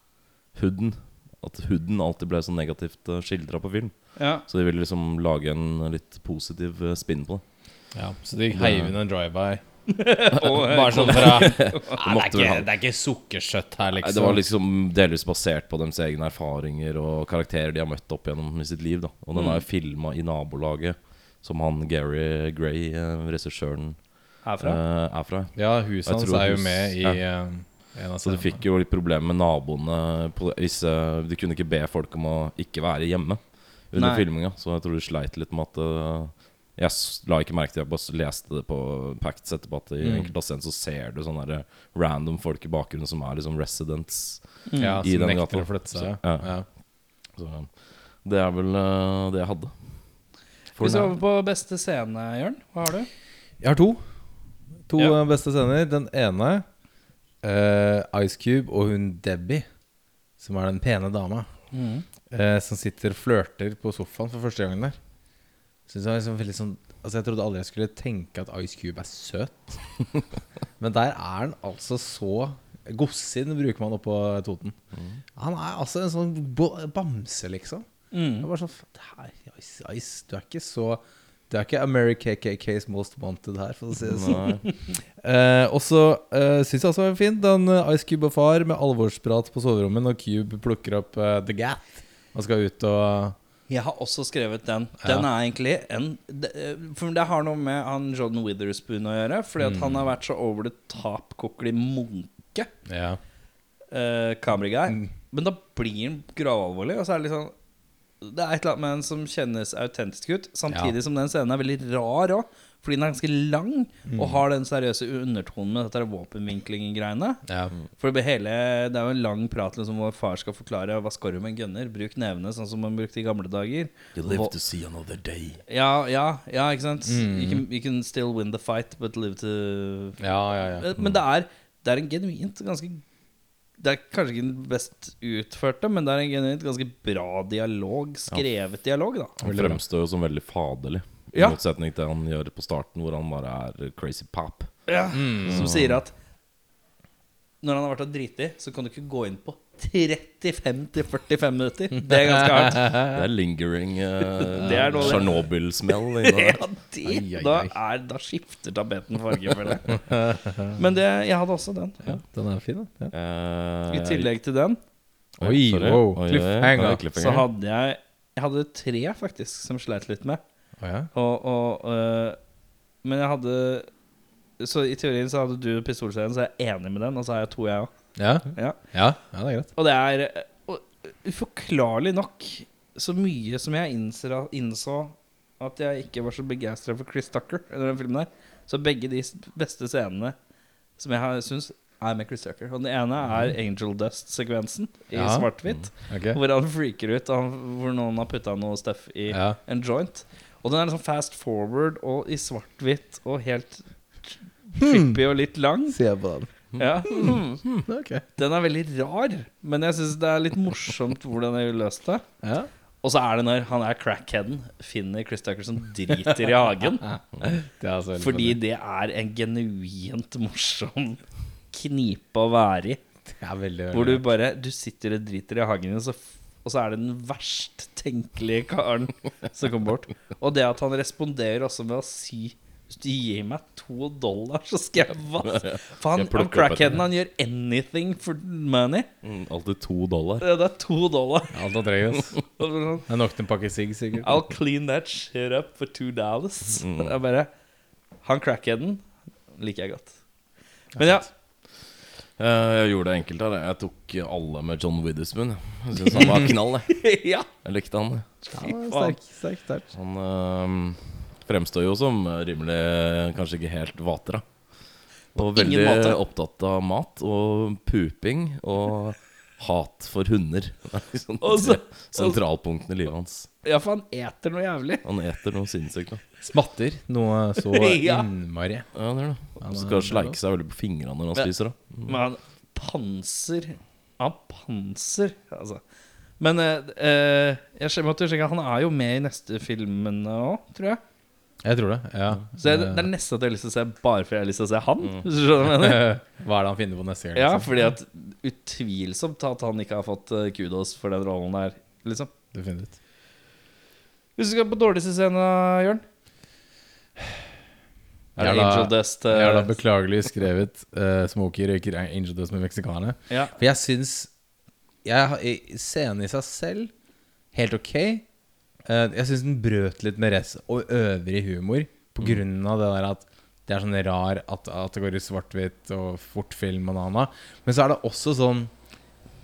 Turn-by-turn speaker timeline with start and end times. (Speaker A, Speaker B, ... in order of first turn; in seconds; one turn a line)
Speaker A: 0.5-7.9
Speaker B: 4.2-4.4
Speaker C: 7.9-9.6
Speaker A: 8.5-8.9
Speaker B: 9.9-11.8
Speaker A: 10.4-12.7
Speaker C: 10.7-14.4
Speaker A: 14.0-51.2
Speaker B: 19.4-19.6
Speaker B: 24.4-24.8
Speaker C: 25.6-28.6
Speaker B: 34.0-34.2
Speaker C: 40.0-40.3
Speaker B: 44.7-45.0
Speaker C: 44.8-46.7
Speaker B: 50.8-53.1
Speaker C: 53.6-54.2
Speaker C: 54.9-56.7
Speaker C: 57.4-59.6
Speaker C: 60.4-61.5
Speaker B: 61.7-62.0
Speaker C: 62.3-65.0
Speaker C: 65.9-70.0
Speaker C: 70.8-74.8
Speaker A: 74.9-75.2
Speaker C: 75.3-93.4
Speaker B: 78.1-78.5
Speaker A: 84.0-84.7
Speaker B: 93.7-102.7
Speaker C: 95.0-95.3
Speaker C: 99.6-100.1
Speaker C: 102.9-103.2
Speaker B: 103.9-107.5
Speaker B: 108.2-117.4
Speaker C: 114.1-114.4
Speaker C: 117.5-117.8
Speaker B: 118.0-124.5
Speaker A: 124.2-125.6
Speaker B: 125.7-130.2
Speaker C: 127.1-127.6
Speaker C: 130.2-130.9
Speaker B: 130.8-133.0
Speaker B: 133.8-139.3
Speaker A: 139.4-144.9
Speaker C: 139.4-139.8
Speaker B: 144.9-146.1
Speaker C: 145.1-145.7
Speaker A: 145.5-146.0
Speaker B: 147.6-153.0
Speaker C: 152.1-153.2
Speaker A: 153.1-156.7
Speaker B: 154.4-160.1
Speaker C: 154.6-155.2
Speaker C: 157.1-157.8
Speaker C: 160.1-160.8
Speaker B: 160.7-162.1
Speaker C: 162.0-163.1
Speaker A: 163.1-164.3
Speaker B: 163.9-164.8
Speaker A: 165.4-167.5
Speaker C: 165.4-167.0
Speaker B: 167.2-170.4
Speaker C: 170.8-171.1
Speaker B: 171.1-172.4
Speaker B: 173.0-173.9
Speaker B: 174.6-177.9
Speaker C: 178.2-179.7
Speaker B: 178.5-178.8
Speaker B: 179.8-190.4
Speaker B: 191.0-206.0
Speaker C: 195.1-196.4
Speaker C: 199.3-199.6
Speaker C: 204.8-205.2
Speaker C: 205.9-206.5
Speaker A: 206.7-207.8
Speaker B: 206.8-207.6
Speaker C: 207.9-208.2
Speaker B: 208.4-212.2
Speaker C: 212.4-212.7
Speaker B: 213.0-217.1
Speaker C: 217.0-218.6
Speaker B: 218.2-223.0
Speaker C: 223.3-224.3
Speaker B: 223.9-239.1
Speaker A: 235.4-237.0
Speaker A: 239.2-240.5
Speaker B: 240.4-241.6
Speaker C: 241.5-242.4
Speaker B: 242.6-243.1
Speaker C: 243.1-244.4
Speaker B: 244.2-247.5
Speaker A: 246.8-247.1
Speaker B: 248.2-250.2
Speaker B: 250.9-251.3
Speaker A: 252.4-258.3
Speaker B: 256.9-257.5
Speaker B: 258.5-259.2
Speaker C: 258.5-259.9
Speaker A: 259.9-273.5
Speaker B: 265.4-266.2
Speaker B: 271.4-272.4
Speaker B: 273.6-275.0
Speaker A: 275.0-276.2
Speaker C: 276.4-278.9
Speaker B: 277.6-278.3
Speaker A: 278.9-282.2
Speaker C: 279.6-280.4
Speaker B: 282.1-285.8
Speaker B: 286.4-291.0
Speaker C: 291.6-293.1
Speaker B: 292.6-296.1
Speaker C: 295.7-297.8
Speaker B: 297.4-302.3
Speaker C: 302.5-302.9
Speaker B: 304.4-306.0
Speaker B: 308.4-309.8
Speaker C: 308.4-314.3
Speaker C: 315.0-316.9
Speaker C: 317.5-318.3
Speaker C: 318.9-328.7